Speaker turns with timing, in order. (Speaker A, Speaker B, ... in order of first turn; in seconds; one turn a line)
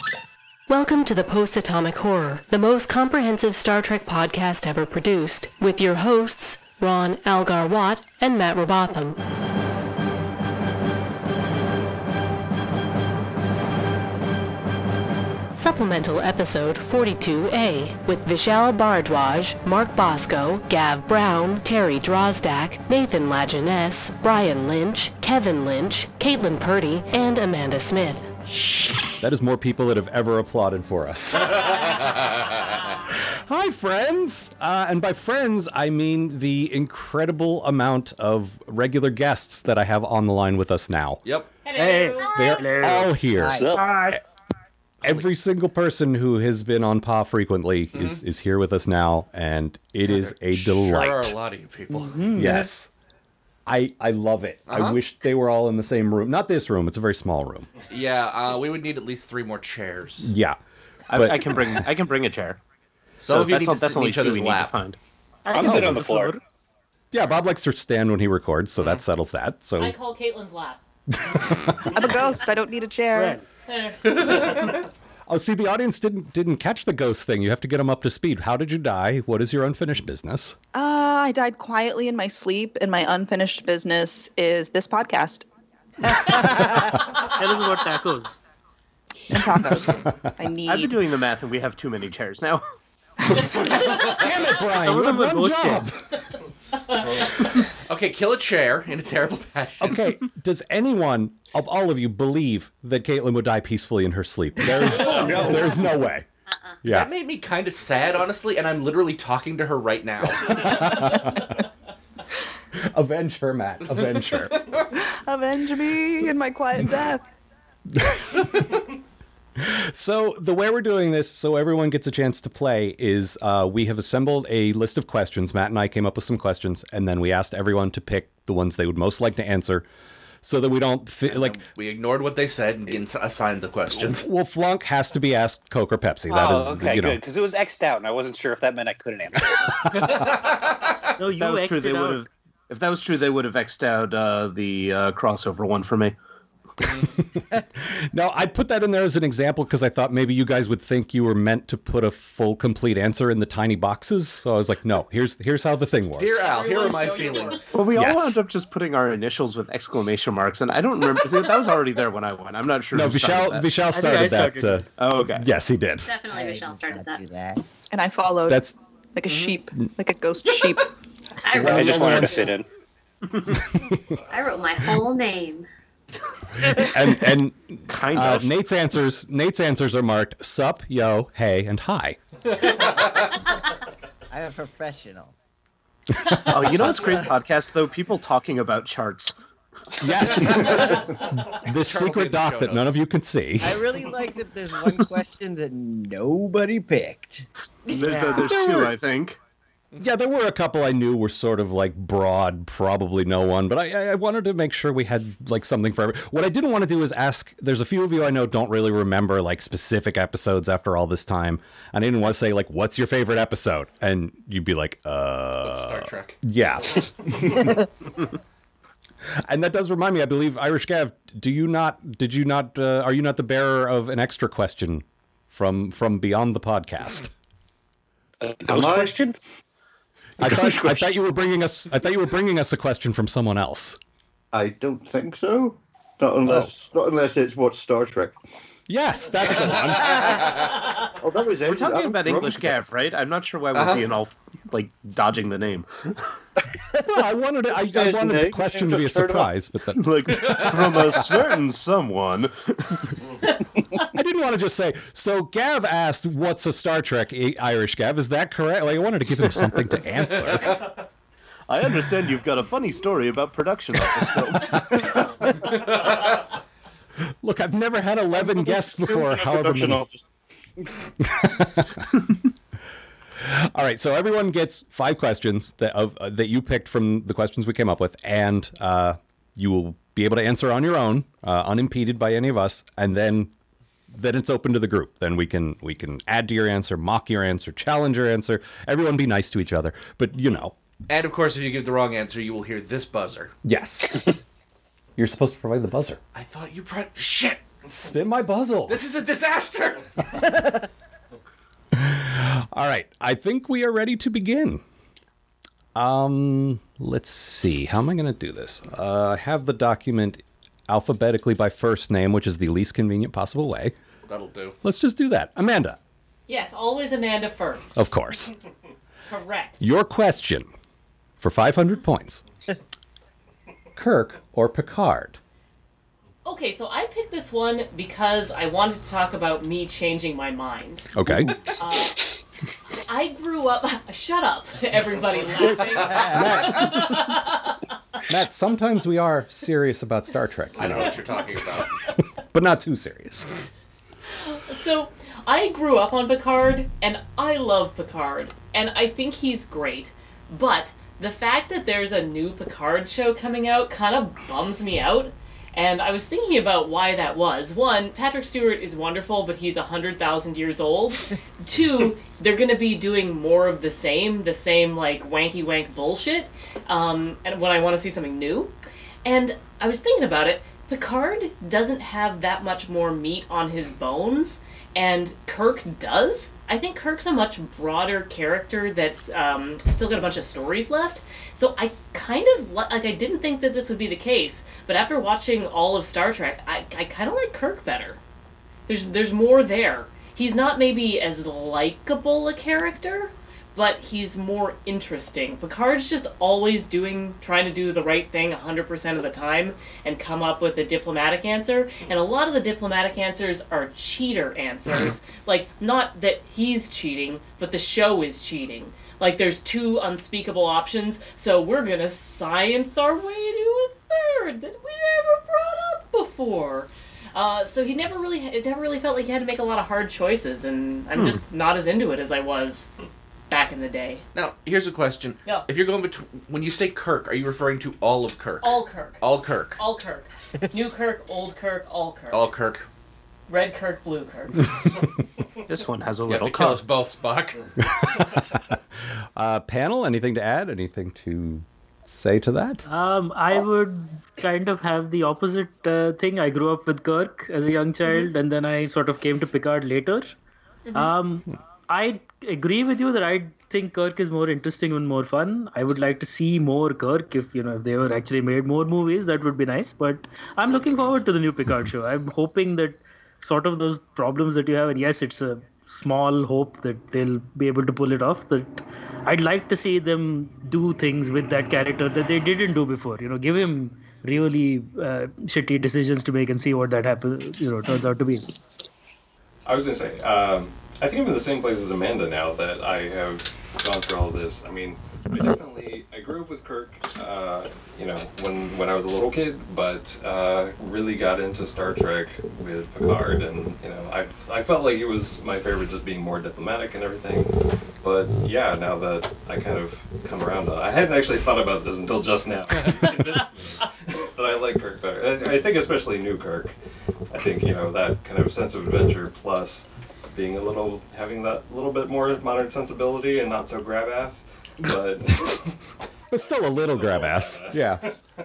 Speaker A: 0.7-9.2
Speaker A: 15.5-28.3
Speaker B: 29.2-32.1
Speaker B: 33.1-41.2
Speaker C: 41.6-42.6
Speaker D: 41.8-44.2
Speaker E: 42.2-42.6
Speaker B: 42.3-44.2
Speaker F: 43.3-43.7
Speaker G: 43.5-44.0
Speaker B: 45.0-51.3
Speaker H: 47.9-48.2
Speaker H: 50.0-52.2
Speaker D: 51.9-52.7
Speaker B: 52.3-52.9
Speaker B: 53.6-57.7
Speaker H: 54.7-55.0
Speaker H: 57.9-60.3
Speaker B: 60.2-60.6
Speaker I: 61.1-62.6
Speaker B: 61.1-61.8
Speaker H: 63.2-64.8
Speaker I: 63.2-65.0
Speaker D: 65.5-66.4
Speaker G: 65.5-66.4
Speaker B: 65.6-66.0
Speaker B: 67.1-69.9
Speaker C: 69.8-70.8
Speaker B: 71.2-72.0
Speaker J: 71.9-73.4
Speaker D: 73.1-73.4
Speaker C: 73.7-74.6
Speaker B: 75.3-80.5
Speaker J: 80.7-85.4
Speaker D: 86.3-88.4
Speaker J: 89.3-91.0
Speaker B: 89.8-90.3
Speaker I: 90.7-92.6
Speaker B: 93.8-96.0
Speaker D: 94.7-95.9
Speaker H: 97.4-100.0
Speaker B: 99.8-106.2
Speaker K: 105.1-105.6
Speaker E: 106.5-106.8
Speaker B: 106.8-107.1
Speaker H: 106.8-111.1
Speaker B: 110.3-111.5
Speaker B: 112.9-114.6
Speaker J: 115.0-117.2
Speaker B: 117.9-118.9
Speaker B: 119.6-129.8
Speaker B: 130.4-131.6
Speaker H: 131.3-134.3
Speaker B: 133.9-137.2
Speaker G: 136.3-139.8
Speaker H: 139.9-140.9
Speaker B: 140.0-140.2
Speaker D: 141.2-142.2
Speaker I: 141.3-146.1
Speaker B: 147.2-156.5
Speaker H: 156.2-157.8
Speaker C: 156.4-157.7
Speaker I: 157.7-163.8
Speaker B: 157.9-158.4
Speaker B: 162.9-166.1
Speaker D: 163.9-164.9
Speaker I: 165.0-165.5
Speaker E: 166.0-167.2
Speaker F: 166.3-167.6
Speaker J: 167.9-170.9
Speaker B: 168.5-168.8
Speaker E: 171.4-172.5
Speaker B: 171.5-172.5
Speaker G: 171.6-172.7
Speaker B: 173.7-174.0
Speaker E: 174.3-175.7
Speaker B: 176.7-182.2
Speaker I: 177.9-178.5
Speaker F: 184.3-185.3
Speaker B: 186.3-186.8
Speaker I: 186.5-189.3
Speaker F: 186.7-187.3
Speaker B: 190.0-193.8
Speaker H: 190.4-191.0
Speaker H: 191.6-193.0
Speaker F: 193.6-197.4
Speaker I: 197.9-199.4
Speaker D: 197.9-198.7
Speaker B: 200.0-217.1
Speaker H: 215.6-217.0
Speaker B: 219.4-227.3
Speaker K: 228.6-229.3
Speaker G: 228.7-229.1
Speaker B: 230.4-234.0
Speaker K: 230.4-231.1
Speaker K: 234.5-238.4
Speaker B: 238.9-240.4
Speaker K: 241.2-242.7
Speaker I: 241.6-246.2
Speaker H: 243.7-244.0
Speaker B: 247.0-250.7
Speaker K: 247.7-249.5
Speaker I: 249.9-253.1
Speaker B: 254.1-260.9
Speaker I: 261.7-265.2
Speaker B: 267.4-270.1
Speaker K: 268.4-270.2
Speaker B: 271.2-272.1
Speaker B: 273.4-283.5
Speaker B: 284.1-290.7
Speaker H: 291.1-293.5
Speaker B: 293.6-294.4
Speaker B: 295.1-296.2
Speaker H: 296.3-297.6
Speaker B: 297.9-299.0
Speaker H: 298.9-300.4
Speaker B: 301.9-304.8
Speaker B: 305.9-313.9
Speaker H: 314.3-314.8
Speaker B: 314.8-316.0
Speaker C: 316.5-318.0
Speaker B: 317.9-318.5
Speaker C: 319.3-319.8
Speaker B: 319.8-320.7
Speaker B: 321.4-322.4
Speaker B: 323.9-325.4
Speaker C: 326.4-331.1
Speaker B: 331.1-331.6
Speaker C: 331.8-332.2
Speaker C: 333.1-337.8
Speaker B: 335.6-337.2
Speaker B: 338.3-341.8
Speaker H: 340.8-341.9
Speaker B: 342.4-343.5
Speaker C: 344.3-368.7
Speaker C: 369.2-388.2
Speaker C: 388.9-422.9
Speaker I: 421.1-421.4
Speaker C: 423.5-424.2
Speaker H: 424.3-429.8
Speaker C: 428.6-429.2
Speaker C: 429.8-432.4
Speaker H: 432.3-432.9
Speaker C: 433.5-434.6
Speaker I: 435.7-436.8
Speaker H: 436.3-437.7
Speaker B: 437.9-438.6
Speaker B: 439.4-442.8
Speaker D: 442.9-450.3
Speaker E: 448.0-448.3
Speaker E: 450.9-451.1
Speaker D: 450.9-478.5
Speaker L: 479.6-506.7
Speaker L: 507.3-515.7
Speaker B: 516.3-518.0
Speaker L: 516.4-518.1